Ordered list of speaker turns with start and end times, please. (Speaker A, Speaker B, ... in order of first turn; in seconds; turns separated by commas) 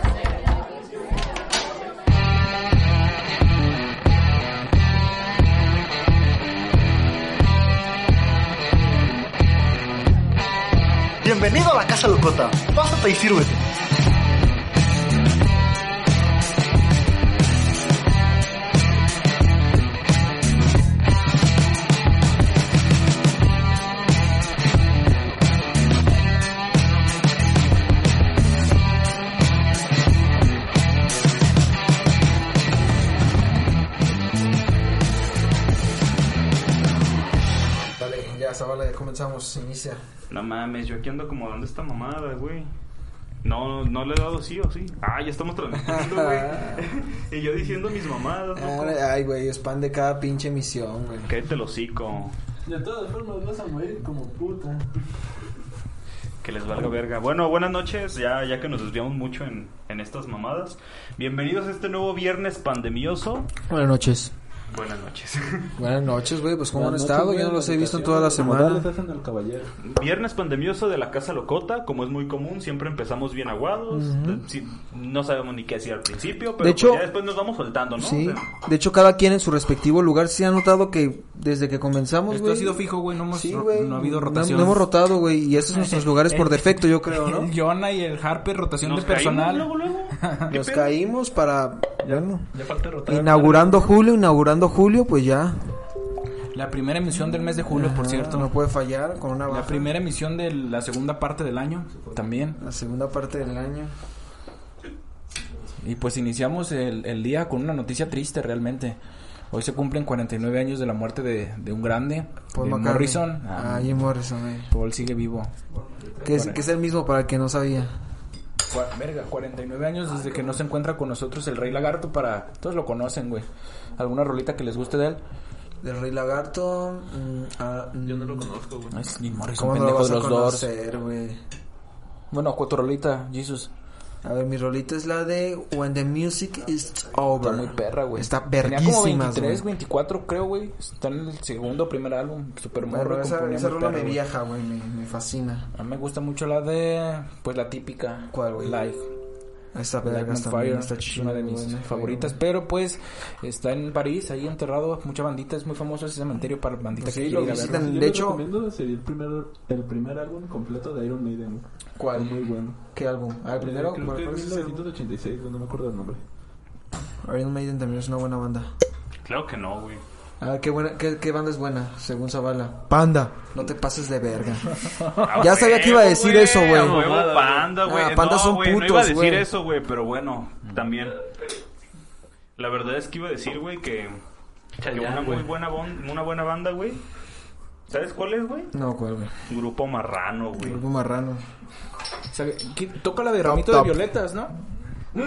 Speaker A: 11.2-13.6, Speaker B: 38.0-40.0, Speaker C: 40.3-42.7, Speaker C: 43.4-49.0, Speaker B: 45.8-46.9, Speaker B: 48.5-51.3, Speaker C: 51.3-52.4, Speaker D: 52.7-54.9, Speaker C: 56.4-63.5, Speaker B: 63.7-64.3, Speaker C: 64.7-65.8, Speaker B: 65.8-68.9, Speaker D: 66.7-69.7, Speaker C: 69.8-78.4, Speaker B: 73.9-74.4, Speaker B: 76.6-77.1, Speaker B: 78.0-87.5, Speaker E: 82.3-84.9, Speaker E: 85.7-89.7, Speaker C: 88.8-91.0, Speaker E: 90.2-90.5, Speaker B: 90.5-92.5, Speaker D: 92.0-94.0, Speaker B: 93.1-95.7, Speaker E: 96.5-98.5, Speaker B: 97.7-99.9, Speaker E: 99.5-102.6, Speaker B: 102.6-103.9, Speaker E: 105.8-109.0, Speaker E: 109.5-114.1, Speaker B: 112.5-114.7, Speaker E: 114.7-115.5, Speaker B: 116.2-117.9, Speaker E: 116.3-116.6, Speaker E: 118.7-123.5, Speaker E: 124.0-125.2, Speaker B: 125.8-128.5, Speaker D: 128.0-129.0, Speaker E: 128.9-130.7, Speaker B: 129.6-131.4, Speaker E: 132.3-133.7, Speaker B: 134.2-139.7, Speaker E: 137.4-144.2, Speaker B: 142.8-145.7, Speaker E: 145.7-149.1, Speaker B: 148.3-148.8, Speaker B: 149.7-152.4, Speaker E: 150.0-157.8, Speaker B: 157.0-158.4, Speaker D: 157.3-162.8, Speaker B: 162.0-164.8, Speaker D: 163.6-166.2, Speaker B: 167.2-168.7, Speaker C: 169.2-170.0, Speaker B: 170.4-177.1, Speaker E: 174.8-175.3, Speaker C: 175.2-181.2, Speaker D: 176.7-177.8, Speaker B: 177.8-179.5, Speaker C: 182.6-184.2, Speaker D: 184.8-185.5, Speaker C: 184.8-187.0, Speaker C: 187.9-188.7, Speaker B: 188.7-189.3, Speaker C: 189.5-190.8, Speaker B: 190.6-191.4, Speaker E: 192.3-194.6, Speaker B: 193.4-194.1